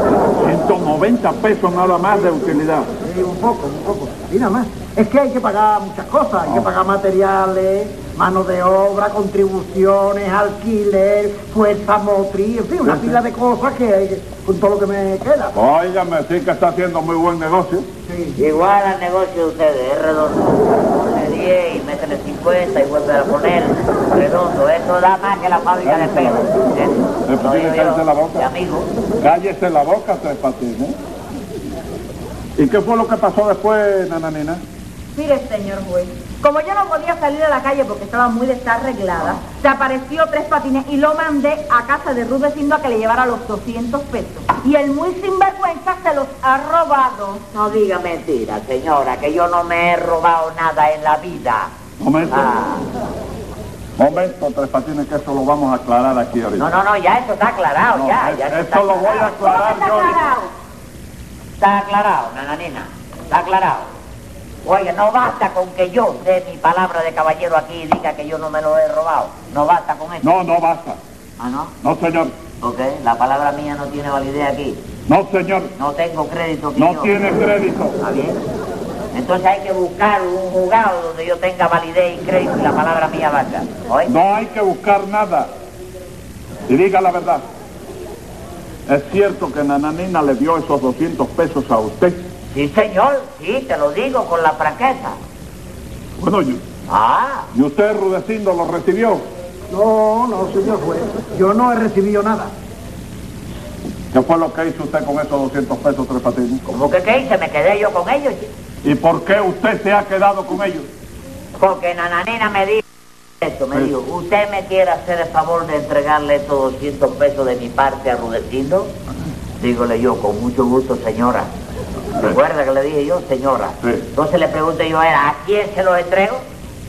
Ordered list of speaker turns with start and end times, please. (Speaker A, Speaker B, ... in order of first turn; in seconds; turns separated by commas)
Speaker A: 0.4-2.9, Speaker B: 3.0-15.5, Speaker A: 12.8-13.2, Speaker A: 15.6-17.9, Speaker C: 18.4-28.9, Speaker A: 25.8-26.6, Speaker A: 27.3-28.4, Speaker A: 29.2-31.0, Speaker A: 32.6-34.6, Speaker D: 35.2-47.4, Speaker C: 47.5-51.7, Speaker A: 52.0-52.6, Speaker C: 52.3-52.8, Speaker A: 54.0-56.7, Speaker C: 56.6-59.4, Speaker A: 57.9-60.2, Speaker D: 59.3-60.5, Speaker C: 61.6-63.9, Speaker C: 64.6-70.3, Speaker A: 70.2-71.0, Speaker C: 71.4-71.7, Speaker A: 71.8-72.3, Speaker C: 72.6-74.8, Speaker A: 75.1-75.7, Speaker C: 75.8-77.2, Speaker A: 76.8-78.0, Speaker C: 78.0-78.4, Speaker C: 79.1-84.2, Speaker A: 84.1-85.5, Speaker A: 86.7-87.5, Speaker A: 88.9-92.2, Speaker C: 92.5-95.2, Speaker A: 96.2-96.6, Speaker C: 96.9-97.5, Speaker A: 97.5-99.3, Speaker B: 99.7-102.5, Speaker A: 104.1-106.6, Speaker C: 106.7-108.5, Speaker A: 108.8-110.9, Speaker C: 111.6-112.8, Speaker C: 113.4-118.9, Speaker C: 119.6-121.5, Speaker C: 122.2-126.4, Speaker A: 123.8-124.1